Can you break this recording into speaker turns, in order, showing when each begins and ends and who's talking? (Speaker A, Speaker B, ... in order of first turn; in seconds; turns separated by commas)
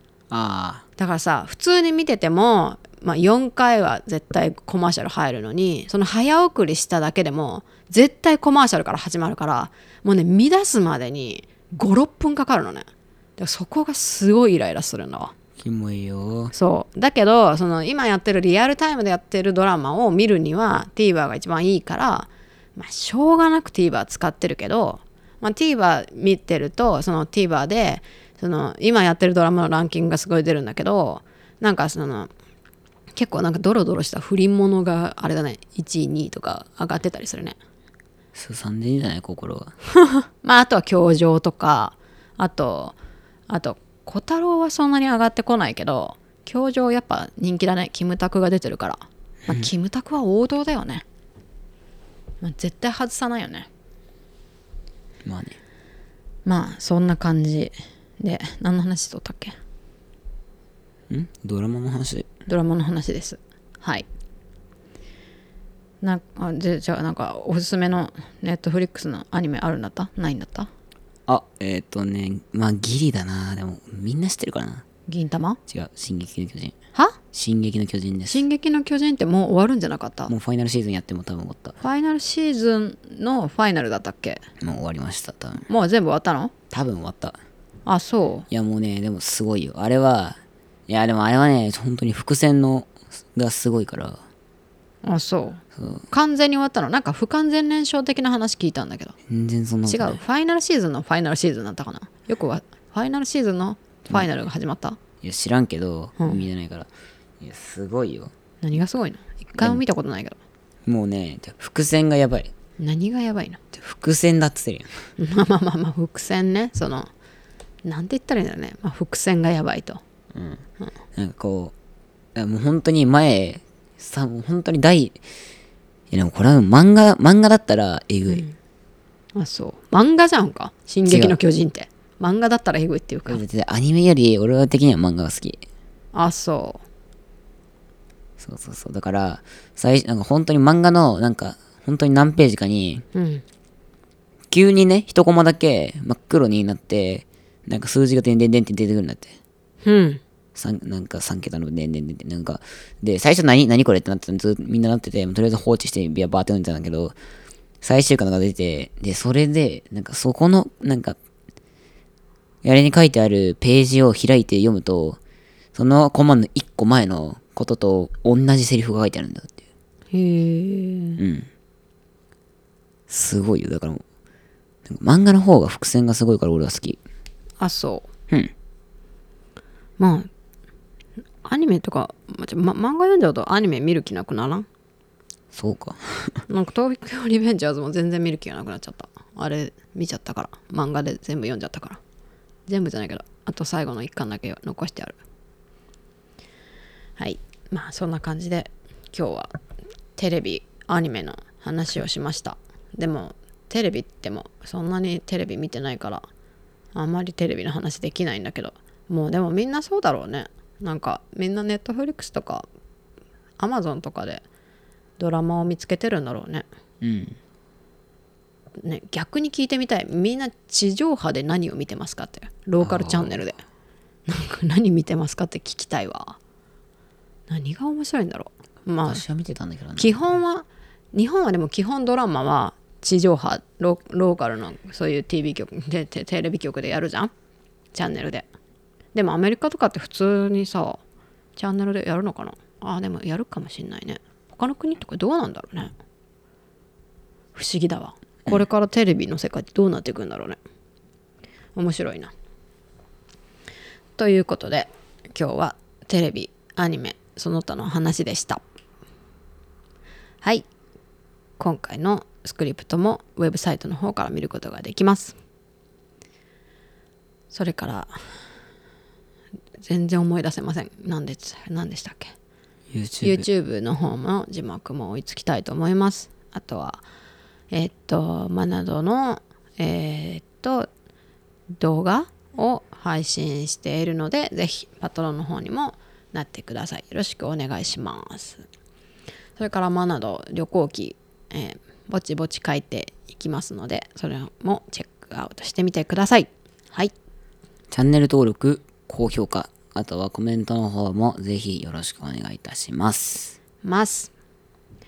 Speaker A: 0.3-0.8, Speaker B: 1.0-15.3, Speaker A: 15.6-16.5, Speaker B: 16.5-32.3, Speaker B: 33.1-37.6, Speaker A: 38.3-39.7, Speaker B: 40.1-43.0, Speaker B: 43.5-51.0, Speaker B: 52.4-53.7, Speaker A: 55.2-55.6, Speaker B: 56.5-59.5, Speaker A: 61.1-62.3, Speaker B: 62.5-64.0, Speaker B: 66.0-70.7, Speaker A: 71.3-74.8, Speaker B: 75.1-75.6, Speaker A: 75.7-76.7, Speaker A: 77.3-78.4, Speaker B: 78.3-80.3, Speaker A: 80.3-81.8, Speaker B: 81.8-84.4, Speaker A: 84.6-85.7, Speaker B: 85.7-86.5, Speaker A: 86.7-87.4, Speaker B: 87.8-88.5, Speaker A: 88.5-94.2, Speaker B: 95.0-99.2, Speaker A: 95.7-96.1, Speaker A: 99.3-100.2, Speaker B: 99.9-105.0, Speaker A: 105.2-106.9, Speaker A: 107.4-108.3, Speaker B: 108.6-110.4, Speaker A: 110.8-112.5, Speaker B: 112.8-113.6, Speaker A: 113.7-115.1, Speaker B: 115.2-117.1, Speaker B: 117.8-120.0, Speaker A: 120.3-120.6, Speaker A: 121.1-121.7, Speaker A: 122.3-125.2, Speaker A: 126.1-128.4, Speaker B: 128.3-128.6, Speaker B: 129.3-133.4, Speaker A: 131.1-131.4, Speaker A: 133.3-135.6, Speaker B: 136.1-136.8, Speaker A: 138.4-143.0, Speaker B: 143.1-143.4, Speaker A: 144.5-149.4, Speaker B: 149.8-150.2, Speaker A: 150.5-157.2, Speaker A: 157.8-161.2, Speaker A: 162.6-165.2, Speaker A: 165.7-169.6, Speaker B: 170.1-171.2, Speaker A: 171.2-171.5, Speaker A: 173.1-174.0, Speaker A: 174.8-177.0, Speaker B: 177.6-178.1, Speaker B: 180.0-180.3, Speaker B: 181.4-184.7, Speaker A: 185.5-186.4, Speaker B: 186.5-192.0, Speaker B: 192.7-195.2, Speaker B: 197.2-199.5, Speaker B: 200.2-206.3, Speaker B: 206.9-212.7, Speaker B: 213.6-214.4, Speaker B: 215.2-216.7, Speaker A: 217.0-217.4, Speaker B: 218.8-223.6, Speaker A: 222.8-223.4, Speaker B: 224.3-226.4, Speaker B: 227.5-229.2, Speaker A: 229.0-230.2, Speaker B: 230.0-237.3, Speaker B: 237.9-238.4, Speaker B: 239.1-241.0, Speaker B: 241.6-245.9, Speaker B: 247.5-250.6, Speaker B: 251.7-252.3, Speaker B: 254.2-258.6, Speaker B: 260.4-260.7, Speaker B: 261.6-265.4, Speaker B: 267.5-268.2, Speaker B: 269.8-272.3, Speaker A: 272.9-273.4, Speaker B: 273.2-277.0, Speaker B: 277.7-280.9, Speaker B: 281.7-288.6, Speaker B: 289.6-297.1, Speaker A: 297.9-303.6, Speaker B: 303.8-304.3